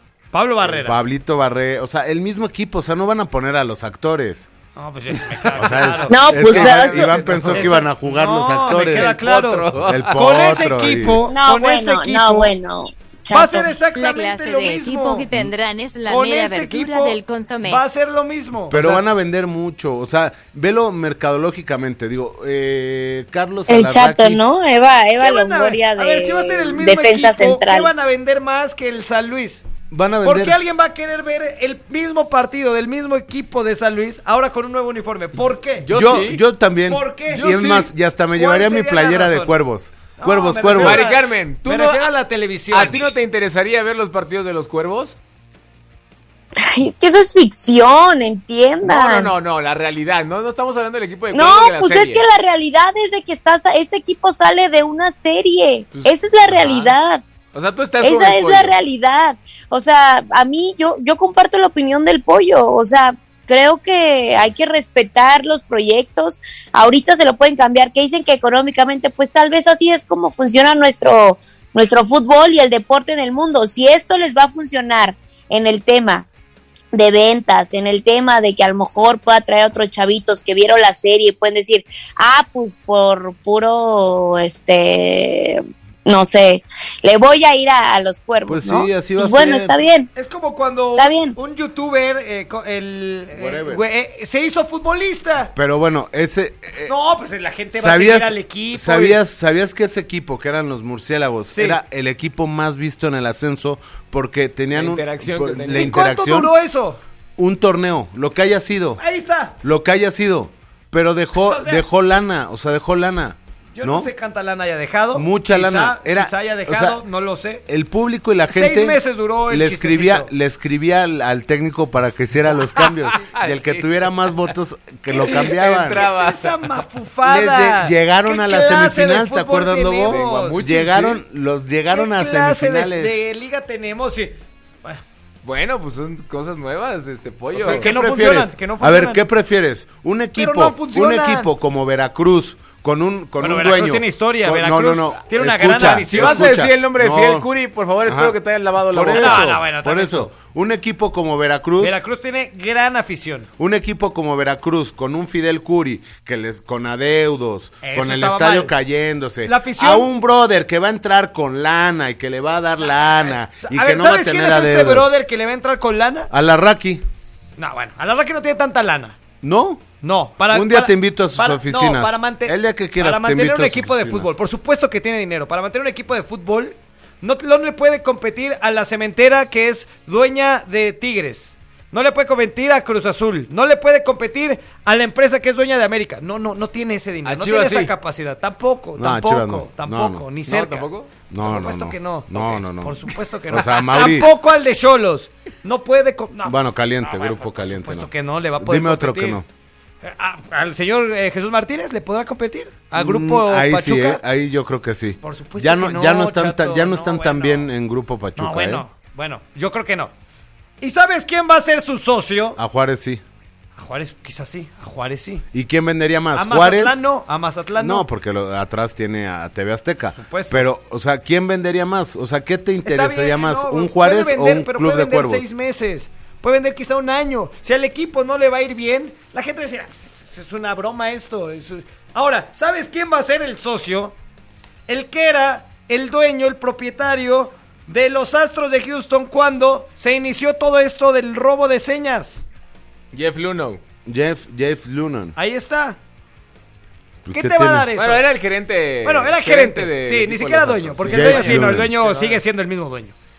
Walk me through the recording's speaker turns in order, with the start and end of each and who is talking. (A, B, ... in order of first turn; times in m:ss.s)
0:00.3-0:01.0 A
0:00.6-0:04.5 B
0:04.7-0:06.2 A
0:05.5-0:09.2 B
0:06.1-0:07.1 C
0:06.3-0:07.8 D
0:07.5-0:12.5 A
0:08.7-0:10.5 D
0:09.8-0:11.2 B
0:11.3-0:13.7 C
0:13.3-0:15.3 A
0:13.9-0:17.8 E
0:16.0-0:18.8 A
0:18.7-0:24.4 B
0:18.7-0:19.0 D
0:23.7-0:27.9 C
0:25.2-0:29.6 A
0:29.9-0:30.6 B
0:30.2-0:35.9 A
0:35.8-0:36.4 D
0:35.9-0:41.0 B
0:36.9-0:37.5 A
0:37.3-0:37.9 D
0:38.4-0:39.5 A
0:40.2-0:43.0 A
0:40.8-0:42.1 D
0:42.7-0:45.2 D
0:46.6-0:49.3 C
0:48.8-0:52.2 D
0:51.3-0:57.2 C
0:55.9-0:57.0 D
0:57.5-0:58.8 D
0:58.0-1:16.2 C
1:16.9-1:30.1 C
1:28.5-1:29.8 B
1:30.1-1:35.5 A
1:31.0-1:31.4 C
1:33.3-1:33.8 B
1:35.5-1:36.9 B
1:36.8-1:39.2 A
1:37.7-1:46.5 B
1:41.5-1:41.8 A
1:44.7-1:45.9 D
1:45.7-1:47.0 A
1:47.4-1:49.0 B
1:49.0-1:49.5 A
1:49.6-1:54.1 B
1:51.4-1:51.8 A
1:53.7-1:57.6 A
1:55.1-1:57.0 B
1:57.7-2:06.0 B
1:58.5-2:00.3 A
2:02.8-2:04.1 D
2:05.1-2:10.6 A
2:05.2-2:06.6 D
2:07.2-2:13.1 B
2:10.0-2:11.2 D
2:11.9-2:15.0 A
2:15.4-2:17.9 D
2:17.5-2:27.5 B
2:17.7-2:19.2 A
2:20.4-2:21.5 A
2:23.4-2:26.5 A
2:26.1-2:29.6 D
2:28.0-2:28.3 B
2:28.9-2:31.9 B
2:29.1-2:30.3 A
2:31.8-2:33.5 A
2:33.6-2:45.1 B
2:37.8-2:38.7 A
2:39.4-2:40.1 A
2:43.6-2:46.3 A
2:46.3-2:47.0 B
2:47.6-2:49.2 A
2:49.4-2:49.8 B
2:50.0-3:10.9 A
2:50.5-2:54.3 B
3:07.2-3:07.9 D
3:09.0-3:10.2 B
3:10.5-3:11.1 D
3:11.3-3:13.0 B
3:11.4-3:19.4 A
3:13.5-3:14.3 B
3:16.4-3:19.4 B
3:20.0-3:24.2 A
3:22.9-3:28.8 B
3:25.2-3:27.7 A
3:28.4-3:30.1 A
3:30.8-3:32.6 A
3:32.6-3:33.2 B
3:33.8-3:35.4 A
3:35.5-3:37.0 B
3:36.3-3:38.0 A
3:37.8-3:45.5 B
3:40.2-3:40.6 A
3:42.8-3:54.1 A
3:54.9-4:02.4 A
4:03.1-4:03.8 D
4:04.0-4:05.3 B
4:05.4-4:06.0 A
4:07.2-4:07.9 B
4:07.3-4:08.2 A
4:08.0-4:12.4 D
4:09.0-4:13.1 A
4:11.0-4:11.9 B